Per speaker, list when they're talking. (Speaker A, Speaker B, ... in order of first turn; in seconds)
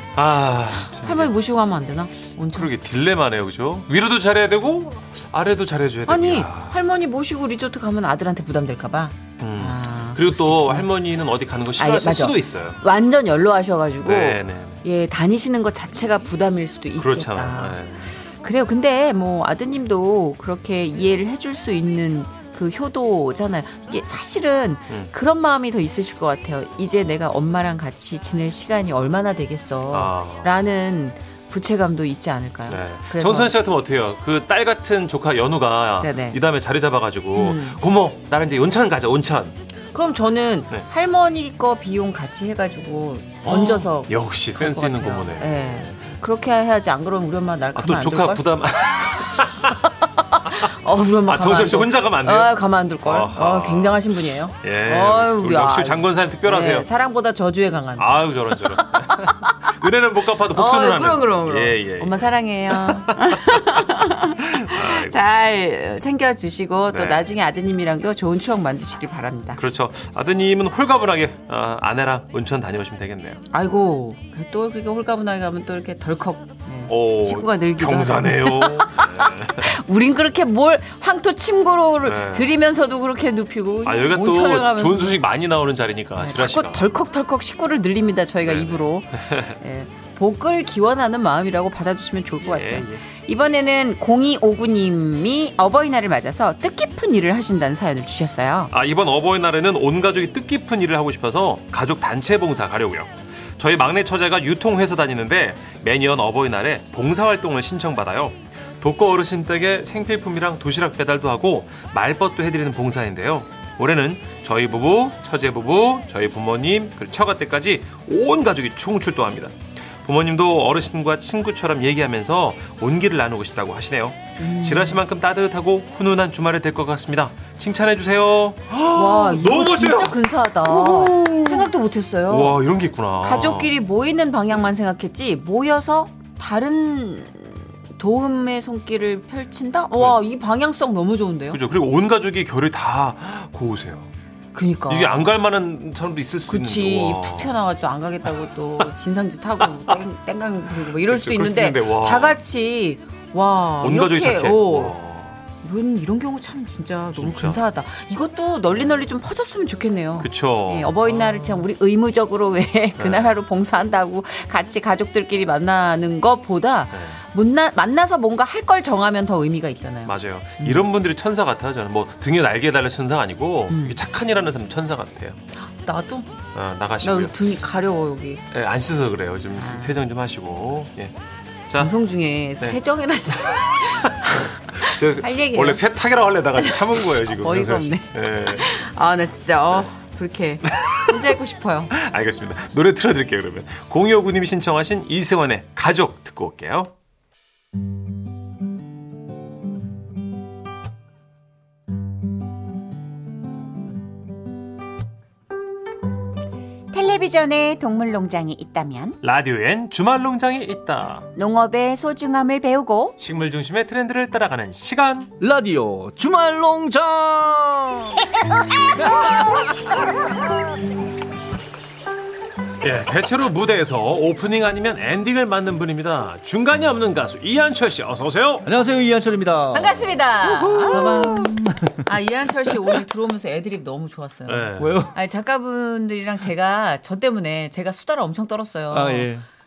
Speaker A: 0.1-1.3, 2.5-6.8, 9.4-12.8, 14.0-14.8, 17.0-18.1, 29.9-30.5, 32.7-39.5, 43.4-46.1, 47.8-49.8, 51.2-56.9, 58.0-65.2, 66.9-67.2, 69.6-73.4, 76.9-79.7, 82.0-82.5, 83.8-86.9, 88.4-89.6, 92.4-93.0, 98.7-131.7, 132.3-133.7, 141.5-144.1, 144.9-147.6, 151.0-152.4, 153.8-155.4, 157.2-157.6, 160.2-161.6, 163.0-163.3, 166.9-167.2, 170.1-175.4, 176.5-177.3, 178.5-181.1, 181.7-181.9, 184.4-188.7, 190.7-191.4, 191.9-196.9, 209.2-211.3, 213.2-215.3, 222.8-228.7, 234.5-235.0
Speaker B: 1.0-2.7, 6.1-10.9, 11.8-33.5, 36.0-36.4, 37.3-37.8, 39.9-48.4, 49.8-59.7, 60.5-69.6, 73.5-85.2, 86.2-98.7, 124.4-125.0, 128.9-132.6, 133.2-141.6, 144.5-145.3, 146.5-154.9, 155.6-170.9, 173.7-174.0, 175.6-176.3, 177.0-178.4, 179.6-180.0, 181.8-185.8, 186.6-191.9, 206.9-209.2, 211.3-213.2, 229.7-231.5, 232.0-239.3
Speaker C: 215.4-220.5, 228.6-232.1, 232.6-233.0, 234.8-235.2, 238.9-239.4